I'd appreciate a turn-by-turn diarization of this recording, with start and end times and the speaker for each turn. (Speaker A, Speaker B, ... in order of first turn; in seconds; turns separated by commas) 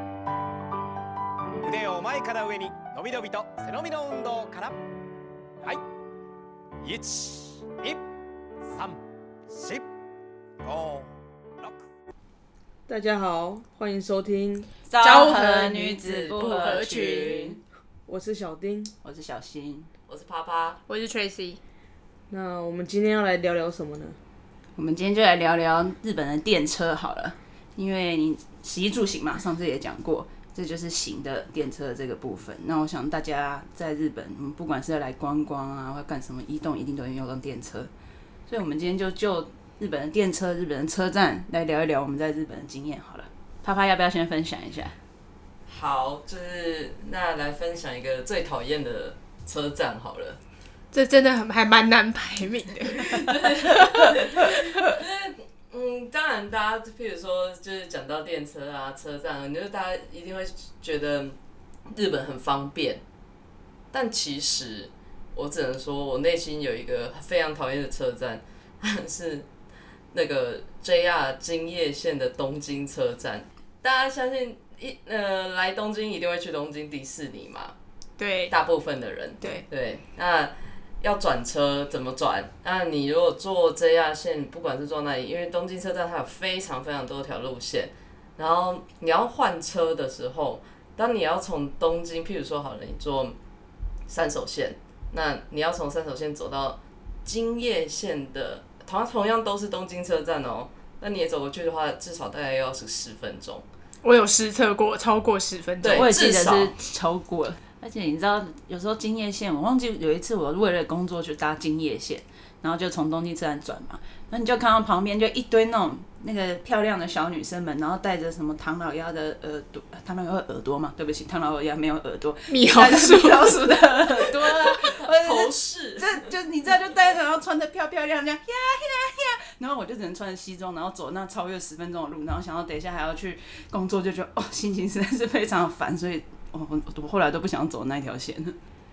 Speaker A: 1.6-4.7, Speaker A: 6.8-8.0, Speaker A: 8.7-8.9, Speaker A: 9.5-9.8, Speaker A: 10.6-11.1, Speaker B: 12.9-14.7, Speaker C: 14.9-17.6, Speaker D: 15.0-17.6, Speaker B: 18.1-18.9, Speaker C: 19.0-19.9, Speaker E: 20.1-20.8, Speaker D: 20.9-21.6, Speaker B: 22.3-24.2, Speaker C: 24.8-37.9, Speaker C: 38.5-45.0, Speaker E: 45.7-50.4, Speaker D: 50.9-53.7, Speaker E: 53.0-61.3, Speaker E: 61.9-63.0, Speaker E: 63.9-69.5, Speaker E: 70.1-77.7, Speaker D: 78.2-78.5, Speaker E: 78.5-93.4, Speaker E: 94.1-103.6, Speaker D: 104.0-106.1, Speaker E: 105.8-106.7, Speaker C: 105.9-138.6, Speaker D: 122.5-123.7, Speaker E: 124.5-126.2